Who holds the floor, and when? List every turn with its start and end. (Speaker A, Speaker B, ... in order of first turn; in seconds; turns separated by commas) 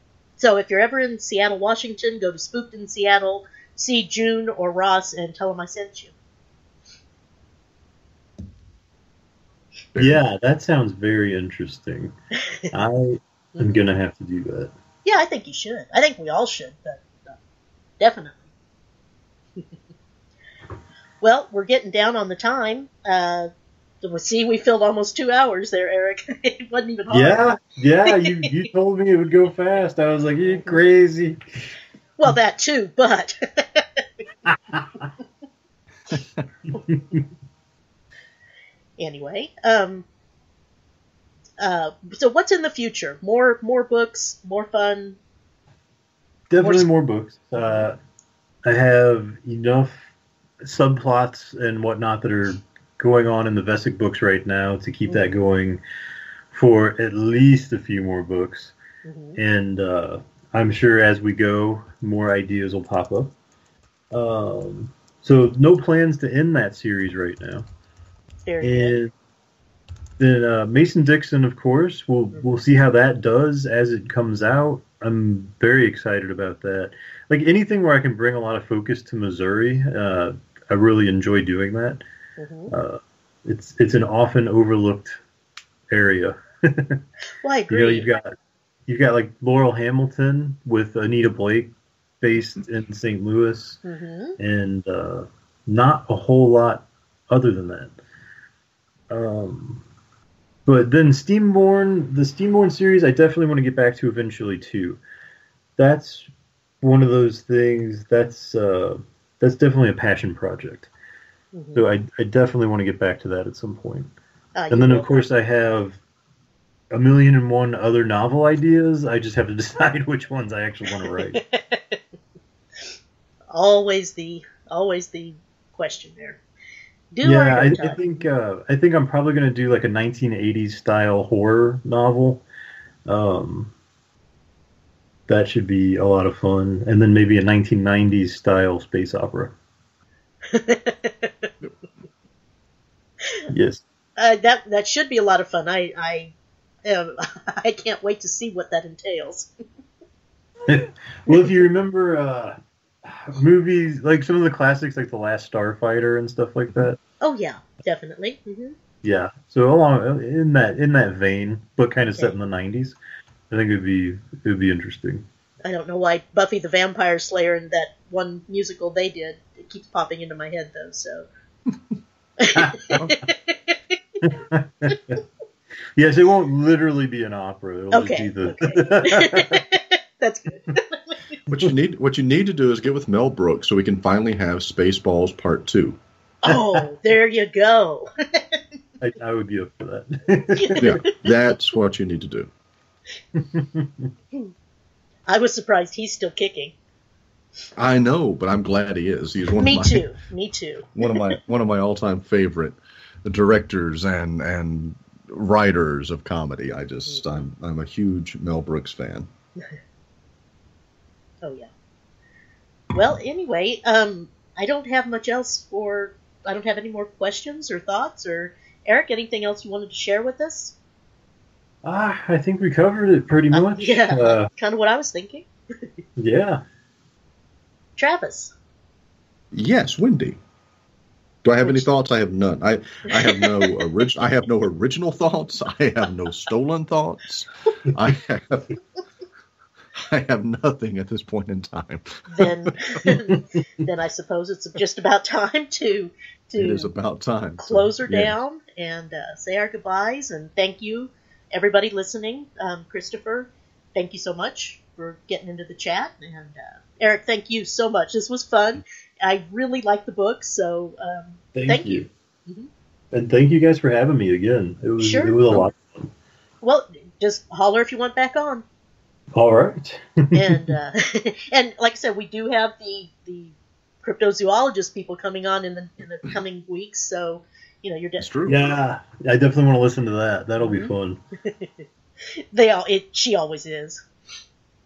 Speaker A: 0.4-6.1, Speaker B: 9.9-10.2, Speaker C: 9.9-12.1, Speaker A: 12.4-12.7, Speaker C: 12.7-14.7, Speaker A: 13.6-13.8, Speaker A: 15.0-17.3, Speaker A: 18.0-18.4, Speaker A: 21.2-23.5, Speaker A: 24.0-27.4, Speaker C: 27.1-31.4, Speaker A: 28.1-28.5, Speaker A: 30.5-30.8, Speaker A: 32.2-34.0, Speaker C: 34.5-35.1, Speaker C: 36.8-37.2, Speaker A: 39.0-40.0, Speaker A: 41.6-45.2, Speaker C: 46.5-48.0, Speaker A: 46.6-46.9, Speaker C: 48.6-50.1, Speaker C: 50.6-55.8, Speaker C: 56.5-58.8, Speaker A: 59.0-59.4, Speaker C: 59.4-63.3, Speaker C: 64.1-67.7, Speaker A: 68.4-68.9, Speaker C: 68.6-69.1, Speaker C: 70.2-82.0, Speaker A: 82.4-82.7, Speaker C: 82.7-85.2, Speaker C: 85.9-87.0, Speaker A: 87.4-88.1, Speaker C: 87.7-88.3, Speaker C: 88.9-93.8, Speaker A: 93.8-94.4, Speaker C: 94.4-98.0, Speaker C: 99.1-99.8, Speaker C: 100.7-105.0, Speaker C: 105.8-106.3, Speaker C: 106.8-110.9, Speaker A: 111.5-111.8, Speaker C: 111.7-114.1, Speaker A: 114.5-115.2, Speaker C: 114.7-116.0, Speaker C: 116.9-121.4, Speaker A: 120.9-122.0, Speaker A: 123.5-126.4, Speaker A: 127.1-128.2, Speaker C: 127.2-132.4, Speaker C: 133.1-133.7, Speaker C: 135.3-139.5, Speaker A: 140.5-141.5, Speaker C: 143.5-143.8, Speaker A: 144.2-146.3, Speaker A: 146.8-149.5, Speaker C: 150.7-152.6, Speaker C: 153.1-157.0, Speaker A: 157.2-158.8, Speaker C: 159.0-162.9, Speaker C: 163.5-165.2, Speaker A: 165.6-171.3, Speaker A: 172.4-173.8, Speaker C: 172.5-173.1, Speaker C: 174.2-175.2, Speaker C: 175.9-179.6, Speaker A: 177.9-181.2, Speaker B: 181.5-186.0, Speaker A: 186.4-188.6, Speaker C: 186.5-186.8, Speaker C: 189.0-191.0, Speaker A: 190.6-191.2, Speaker B: 190.8-192.5, Speaker C: 193.4-194.1, Speaker A: 195.3-196.7, Speaker B: 197.8-200.1, Speaker A: 199.6-201.3, Speaker B: 200.9-209.3, Speaker A: 207.1-207.4, Speaker A: 211.4-211.7, Speaker A: 212.9-220.8, Speaker C: 221.8-224.5, Speaker A: 223.5-225.8, Speaker C: 226.2-226.6, Speaker A: 228.0-228.5, Speaker B: 229.5-230.4, Speaker B: 231.4-238.8, Speaker A: 233.3-233.7, Speaker B: 240.0-242.2, Speaker A: 242.3-246.9, Speaker C: 243.0-243.4, Speaker B: 246.6-248.4, Speaker A: 247.6-262.7, Speaker C: 261.5-262.1, Speaker C: 263.1-266.1, Speaker A: 265.0-265.6, Speaker A: 266.6-268.6, Speaker C: 269.3-270.8, Speaker A: 270.3-278.7, Speaker B: 278.2-278.6, Speaker C: 278.5-281.2, Speaker A: 280.6-281.9, Speaker A: 282.5-284.0